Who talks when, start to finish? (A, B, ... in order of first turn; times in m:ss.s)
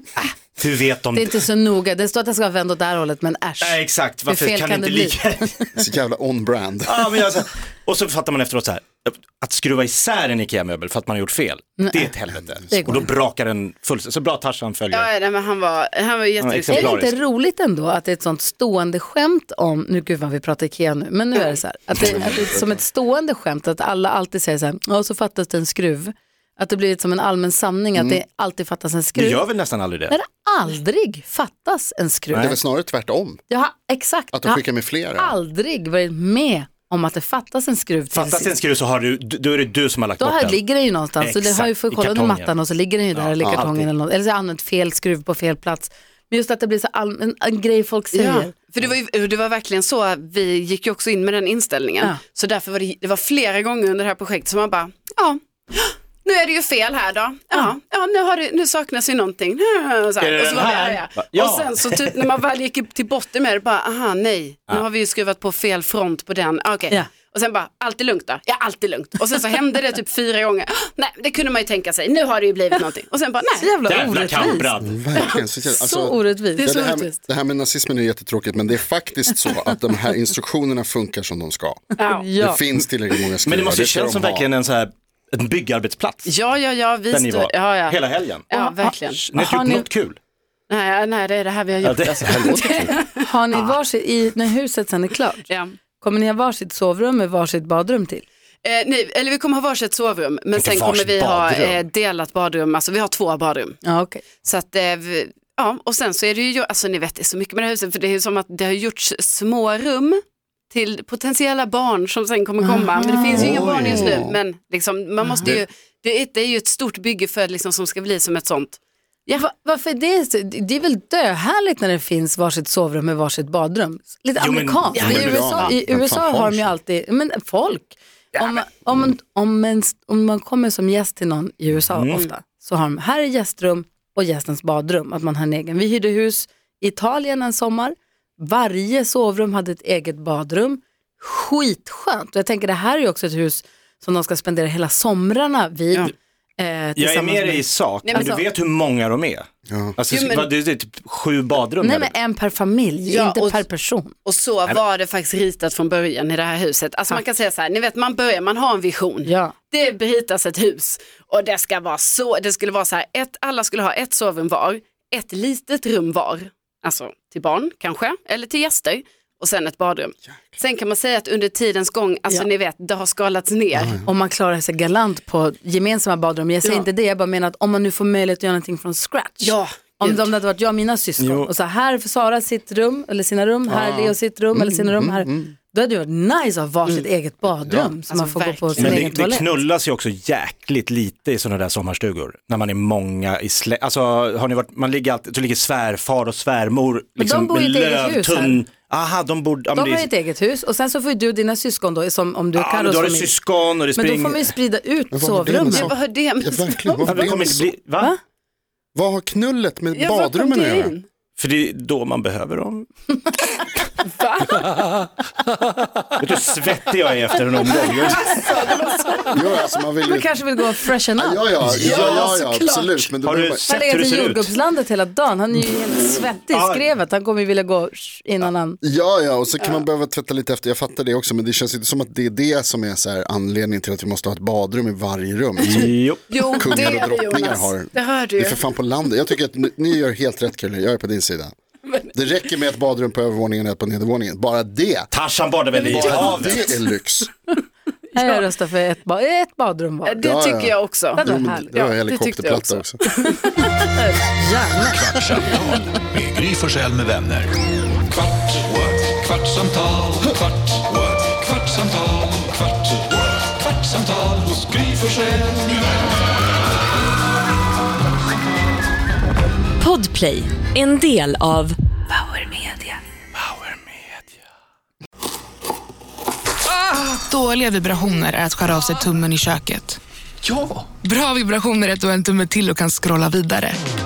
0:00.2-0:01.4 A
0:01.1-0:05.7 B
0:03.6-0:05.5 A
0:05.8-0:07.2 C
0:06.9-0:15.1 A
0:11.8-0:12.1 B
0:12.7-0:13.0 C
0:12.7-0:13.1 B
0:14.9-0:17.1 D
0:16.4-0:17.1 A
0:16.7-0:29.4 B
0:22.0-0:22.7 C
0:28.0-0:28.2 C
0:29.2-0:30.2 A
0:30.1-0:32.5 B
0:32.3-0:32.6 A
0:32.4-0:33.4 C
0:33.5-0:34.6 B
0:34.3-0:35.4 C
0:35.2-0:38.6 B
0:38.1-0:40.6 A
0:40.2-0:48.5 B
0:41.2-0:42.6 A
0:43.1-0:43.9 A
0:48.1-1:13.7 D
1:00.2-1:02.2 A
1:13.5-1:14.7 B
1:13.8-1:15.0 A
1:14.8-1:21.9 C
1:15.6-1:16.7 B
1:16.6-1:17.2 D
1:22.0-1:22.3 D
1:22.0-1:22.6 B
1:22.4-1:24.5 C
1:23.5-1:26.3 A
1:26.2-1:29.2 D
1:27.1-1:28.5 A
1:28.5-1:29.9 B
1:29.1-1:30.2 A
1:30.7-1:33.7 D
1:31.8-1:32.9 A
1:33.2-1:35.5 B
1:35.5-1:35.7 D
1:36.0-1:38.2 B
1:38.6-1:43.8 D
1:40.6-1:41.8 A
1:43.8-1:44.2 B
1:44.4-1:50.2 D
1:50.7-1:59.4 D
1:52.6-1:53.6 B
1:53.3-1:54.4 C
1:53.4-1:53.9 A
1:55.2-1:55.6 B
1:59.3-2:28.4 B
2:04.4-2:05.4 A
2:05.0-2:05.8 D
2:05.0-2:06.8 C
2:11.9-2:12.3 A
2:27.0-2:32.1 A
2:28.0-2:28.4 D
2:29.7-2:30.0 C
2:30.1-2:30.5 D
2:31.8-2:34.2 B
2:33.1-2:33.6 D
2:34.2-2:54.0 D
2:39.2-2:39.6 B
2:53.8-2:54.1 C
2:54.0-3:09.6 B
2:59.4-3:00.3 D
3:01.2-3:01.5 A
3:03.7-3:05.5 C
3:07.6-3:07.9 C
3:08.1-3:09.0 D
3:08.8-3:20.1 A
3:17.2-3:18.6 B
3:19.7-3:23.4 B
3:22.6-3:24.6 A
3:23.9-3:25.9 B
3:25.1-3:27.7 C
3:25.7-3:27.3 D
3:27.1-3:28.1 A
3:29.0-3:31.0 C
3:29.9-3:31.1 D
3:31.4-3:32.9 A
3:34.0-3:34.7 D
3:36.2-3:38.3 A
3:37.6-3:39.4 D
3:39.3-3:40.3 C
3:40.0-3:42.0 B
3:41.2-3:43.7 C
3:41.7-3:43.0 D
3:41.8-3:42.2 A
3:43.2-3:44.5 A
3:43.7-3:48.8 B
3:46.5-3:46.9 A
3:48.4-4:01.5 C
3:55.6-3:56.7 A
3:55.7-3:58.6 D
4:02.1-4:05.1 C
4:05.1-4:06.7 A
4:05.8-4:06.7 D
4:05.8-4:07.3 C
4:08.1-4:10.2 B
4:08.2-4:08.4 D
4:10.0-4:11.2 D
4:10.2-4:13.0 C
4:11.2-4:11.7 B
4:11.7-4:13.6 D
4:13.6-4:15.2 B
4:14.9-4:17.5 E
4:18.8-4:20.2 E
4:21.1-4:22.5 E
4:24.1-4:24.6 E
4:29.8-4:32.9 F
4:36.9-4:43.8 G